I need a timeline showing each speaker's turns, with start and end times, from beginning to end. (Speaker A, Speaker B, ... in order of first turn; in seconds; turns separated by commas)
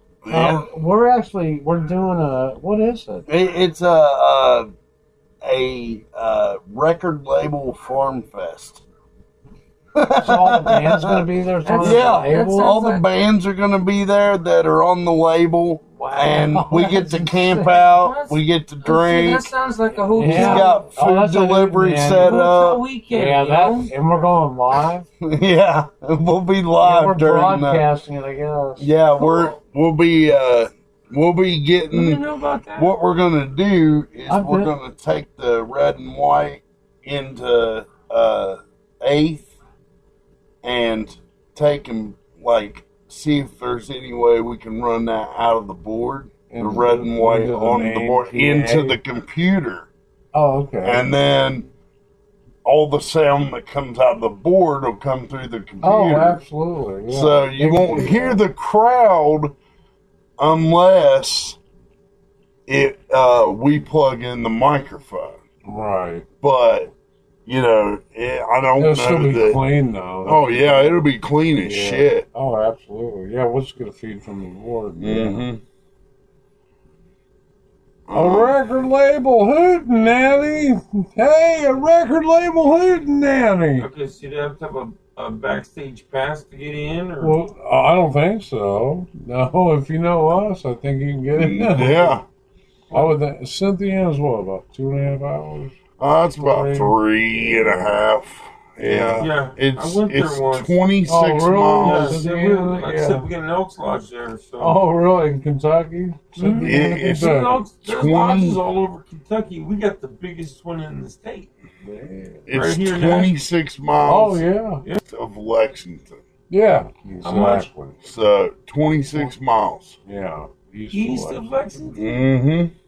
Speaker A: 0.2-0.7, Speaker B: 0.3-3.3, Speaker A: 3.3-4.7, Speaker A: 5.4-8.8, Speaker A: 10.0-11.2, Speaker B: 10.2-12.6, Speaker C: 11.7-13.1, Speaker A: 11.8-19.5, Speaker B: 16.1-17.9, Speaker C: 17.9-20.8, Speaker B: 20.2-22.2, Speaker D: 20.2-20.8, Speaker A: 20.2-22.9, Speaker C: 22.3-23.1, Speaker E: 23.0-23.9, Speaker B: 23.2-25.0, Speaker D: 23.2-23.7, Speaker A: 25.2-27.9, Speaker B: 26.8-28.9, Speaker A: 28.8-39.5, Speaker E: 31.9-32.9, Speaker B: 34.3-34.7, Speaker A: 40.6-49.9, Speaker D: 46.5-49.0, Speaker D: 50.3-51.2, Speaker A: 50.8-51.7, Speaker A: 52.6-56.4, Speaker D: 55.8-58.4, Speaker A: 57.1-59.5, Speaker A: 60.4-61.6, Speaker A: 62.7-65.4, Speaker D: 65.7-66.3, Speaker A: 66.4-66.9, Speaker A: 67.5-72.3, Speaker D: 68.8-71.1, Speaker D: 71.6-75.5, Speaker A: 75.0-75.6, Speaker A: 78.1-78.6, Speaker D: 78.1-83.9, Speaker E: 83.8-87.4, Speaker D: 87.2-92.2, Speaker A: 91.3-92.2, Speaker E: 92.9-93.2, Speaker D: 92.9-95.8, Speaker A: 96.0-102.2, Speaker D: 96.4-98.0, Speaker D: 98.8-99.3, Speaker E: 99.2-100.8, Speaker D: 101.1-103.3, Speaker E: 101.8-104.8, Speaker D: 104.6-107.7, Speaker E: 106.4-111.5, Speaker A: 106.6-108.6, Speaker D: 111.8-112.5, Speaker A: 112.5-114.5, Speaker E: 112.5-113.4, Speaker D: 114.0-114.8, Speaker A: 115.1-116.2, Speaker D: 116.5-118.0, Speaker E: 117.2-117.7, Speaker A: 118.0-120.0, Speaker D: 120.0-121.5, Speaker E: 120.9-122.1, Speaker A: 122.0-122.7